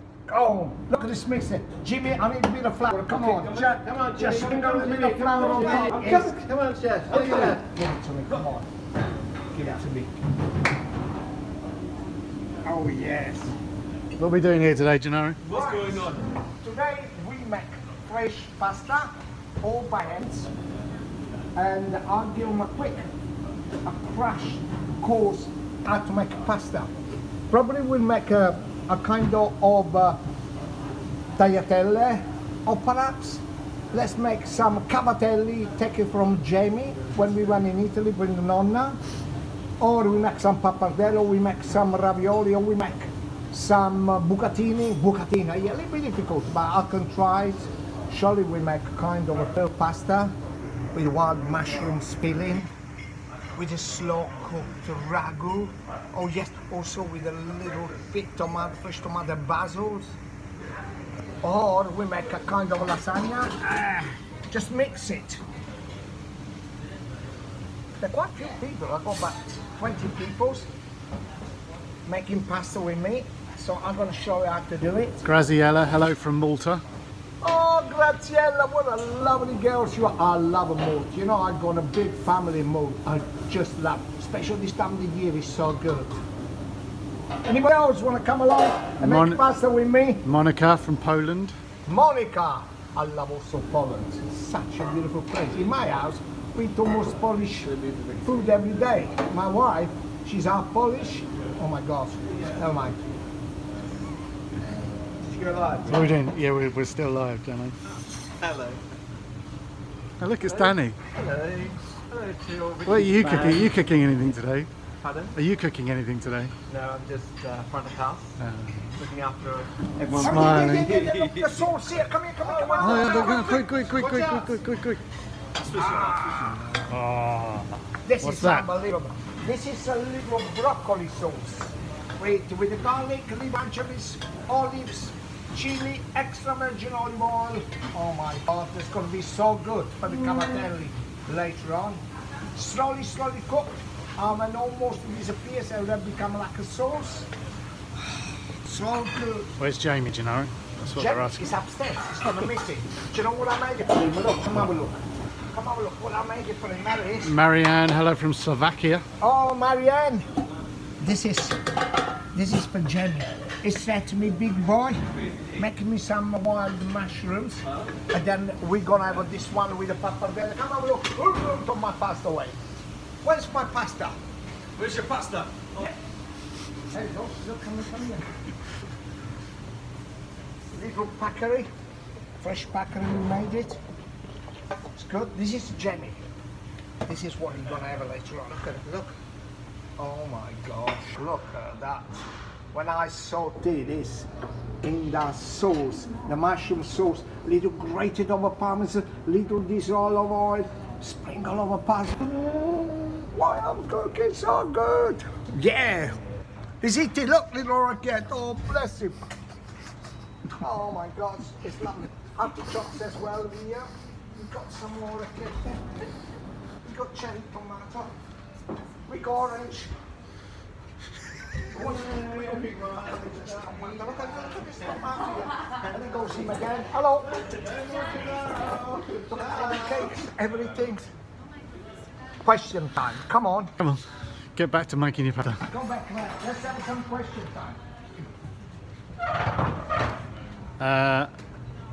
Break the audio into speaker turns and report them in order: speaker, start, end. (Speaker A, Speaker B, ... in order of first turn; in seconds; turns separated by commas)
Speaker A: 0.3-6.4, Speaker B: 3.1-7.6, Speaker A: 7.1-8.7, Speaker A: 9.5-10.2, Speaker A: 12.7-13.5, Speaker C: 14.2-15.4, Speaker A: 15.5-20.5, Speaker B: 15.6-16.2, Speaker A: 21.6-23.0, Speaker A: 23.9-26.9, Speaker A: 27.5-30.2, Speaker A: 31.4-39.0, Speaker A: 39.8-50.3, Speaker A: 50.9-52.7, Speaker A: 53.6-60.1, Speaker A: 61.4-65.4, Speaker A: 68.0-70.7, Speaker A: 72.1-75.2, Speaker C: 75.2-76.8, Speaker A: 77.4-86.2, Speaker A: 87.5-90.2, Speaker C: 89.0-89.4, Speaker C: 90.2-91.5, Speaker A: 91.9-103.0, Speaker B: 105.2-106.1, Speaker C: 105.9-107.8, Speaker B: 108.4-108.8, Speaker C: 110.2-111.0, Speaker B: 110.5-113.7, Speaker C: 112.9-114.7, Speaker B: 115.0-115.3, Speaker C: 115.3-116.5, Speaker B: 116.7-118.4, Speaker C: 118.4-118.9, Speaker B: 119.0-121.4, Speaker C: 120.2-120.9, Speaker A: 120.2-123.7, Speaker B: 122.5-124.6, Speaker C: 122.8-125.0, Speaker B: 125.6-126.6, Speaker A: 125.7-126.6, Speaker C: 126.9-127.7, Speaker A: 128.1-142.0, Speaker C: 128.2-128.7, Speaker A: 142.6-147.3, Speaker A: 148.0-149.5, Speaker C: 149.6-151.4, Speaker A: 150.9-155.0, Speaker A: 155.5-157.3, Speaker C: 157.2-159.0, Speaker A: 159.2-160.2, Speaker A: 161.0-161.6, Speaker A: 162.3-165.0, Speaker A: 165.6-172.6, Speaker A: 173.2-174.2, Speaker B: 174.8-175.8, Speaker A: 176.9-178.3, Speaker A: 180.7-181.7, Speaker A: 182.4-183.8, Speaker A: 184.9-186.2, Speaker A: 187.1-189.2, Speaker A: 190.0-192.2, Speaker A: 192.7-194.3, Speaker A: 194.8-206.2, Speaker A: 206.8-209.2, Speaker A: 210.6-216.0, Speaker A: 216.8-218.1, Speaker A: 219.1-219.9, Speaker A: 221.7-227.3, Speaker B: 227.6-229.9, Speaker A: 229.1-231.1, Speaker A: 232.4-233.7, Speaker C: 234.6-235.7, Speaker A: 235.7-237.8, Speaker C: 240.8-241.3